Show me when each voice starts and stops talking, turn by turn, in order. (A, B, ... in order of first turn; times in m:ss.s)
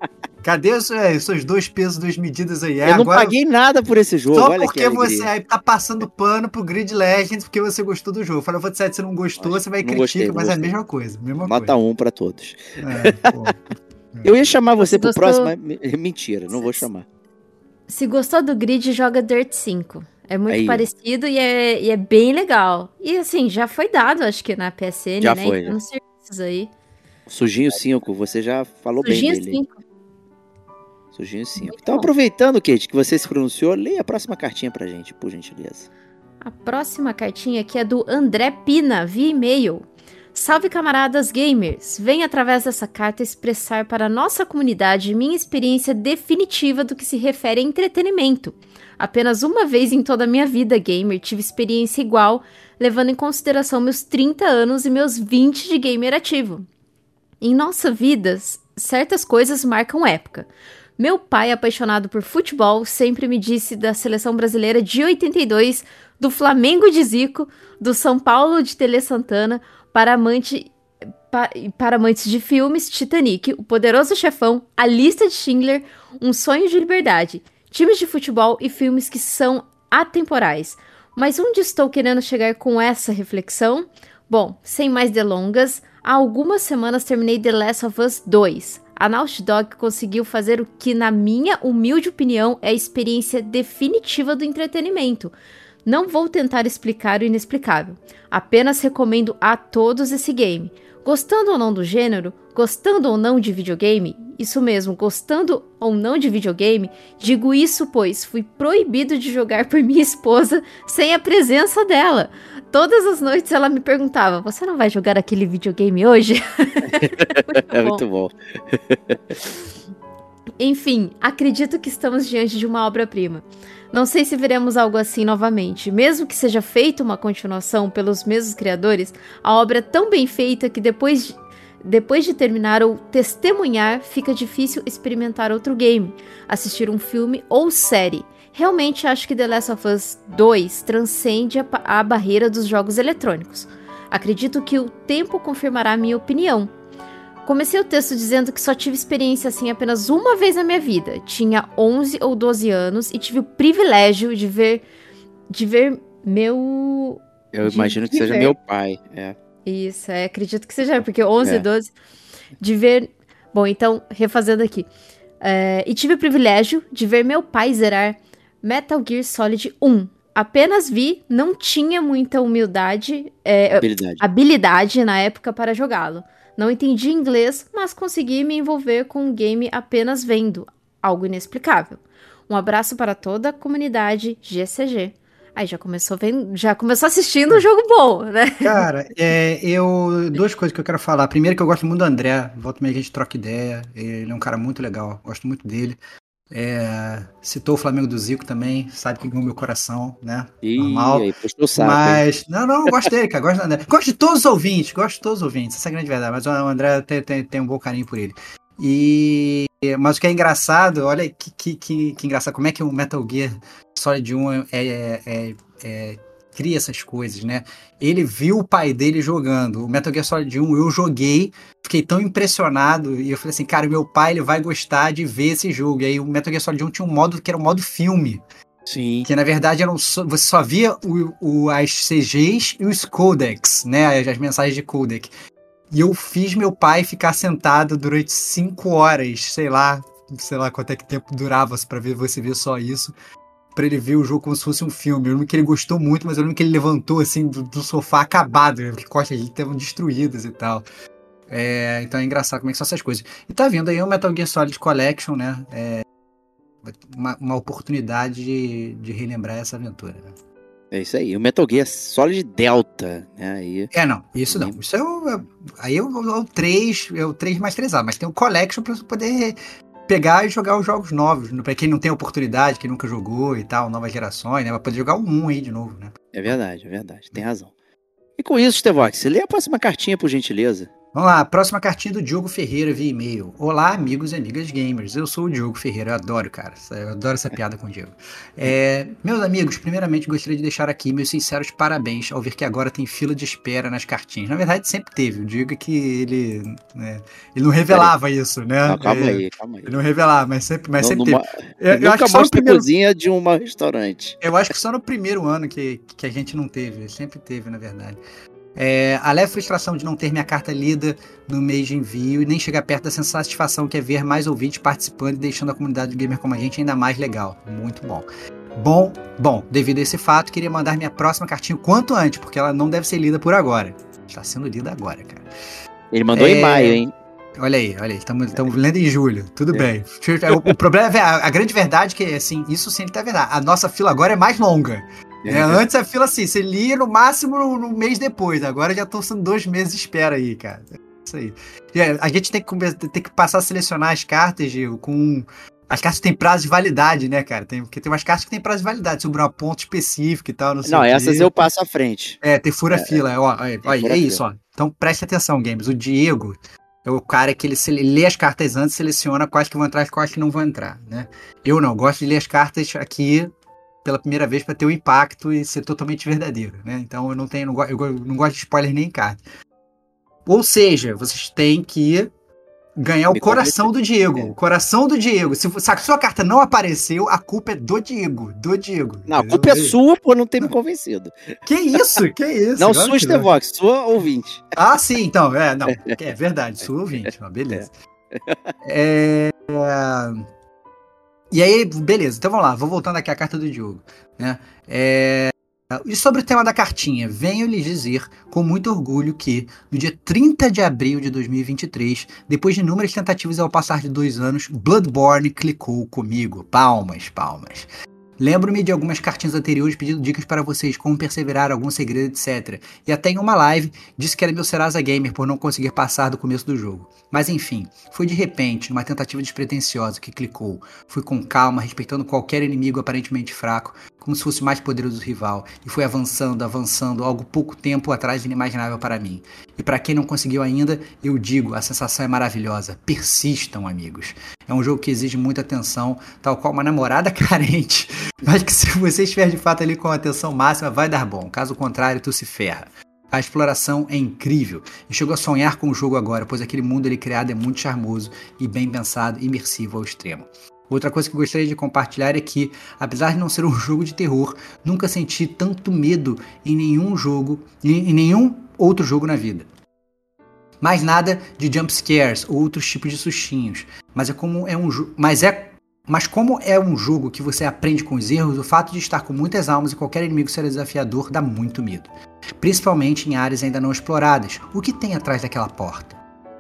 0:00.4-0:03.4 A
0:02.8-0:05.3 B
0:04.3-0:11.7 A
0:09.4-0:10.7 B
0:11.4-0:13.5 B
0:12.8-0:13.6 A
0:14.2-0:17.0 B
0:14.8-0:15.5 C
0:16.6-0:16.9 C
0:17.9-0:26.7 C
0:20.5-0:20.9 B
0:25.2-0:25.8 B
0:27.3-0:29.6 B
0:29.0-0:29.8 C
0:31.1-0:35.9 B
0:31.6-0:32.1 C
0:36.4-0:56.7 C
0:57.4-1:10.7 C
1:11.3-1:35.3 C
1:35.9-1:58.0 C
1:56.9-1:59.4 B
2:00.6-2:26.7 C
2:27.4-2:34.8 C
2:35.5-2:38.6 C
2:37.5-2:39.4 B
2:39.6-2:41.9 C
2:42.6-2:44.9 C
2:45.4-3:08.8 C
2:53.7-2:54.2 B
3:08.6-3:16.0 A
3:16.5-3:48.4 A
3:20.6-3:22.2 B
3:48.9-3:49.3 B
3:49.2-3:55.3 A
3:55.9-4:03.2 A
4:03.8-4:10.9 A
4:11.5-4:16.0 A
4:16.8-4:20.4 A
4:20.9-4:23.9 B
4:23.9-4:29.6 A
4:24.5-4:24.8 B
4:30.1-4:36.2 A
4:36.3-4:37.7 B
4:38.4-4:40.9 B
4:41.1-5:02.9 A
4:58.9-5:00.0 B
5:01.0-5:04.4 B
5:04.4-5:08.2 A
5:08.8-5:25.5 A
5:26.1-5:27.1 B
5:26.4-5:27.0 A
5:27.6-5:51.5 A
5:30.5-5:30.8 B
5:35.4-5:35.8 B
5:50.8-5:52.4 B
5:52.4-6:03.5 A
5:52.9-5:53.2 B
5:53.8-5:54.4 B
6:04.0-6:09.4 A
6:10.5-6:12.3 A
6:13.0-6:20.0 A
6:13.3-6:14.5 B
6:19.3-6:21.6 B
6:21.7-6:23.5 A
6:22.8-6:24.7 B
6:24.8-6:27.9 A
6:25.9-6:26.2 B
6:27.7-6:28.7 B
6:28.8-6:30.5 A
6:31.5-7:39.7 A
7:40.8-7:52.1 A
7:52.6-7:56.2 A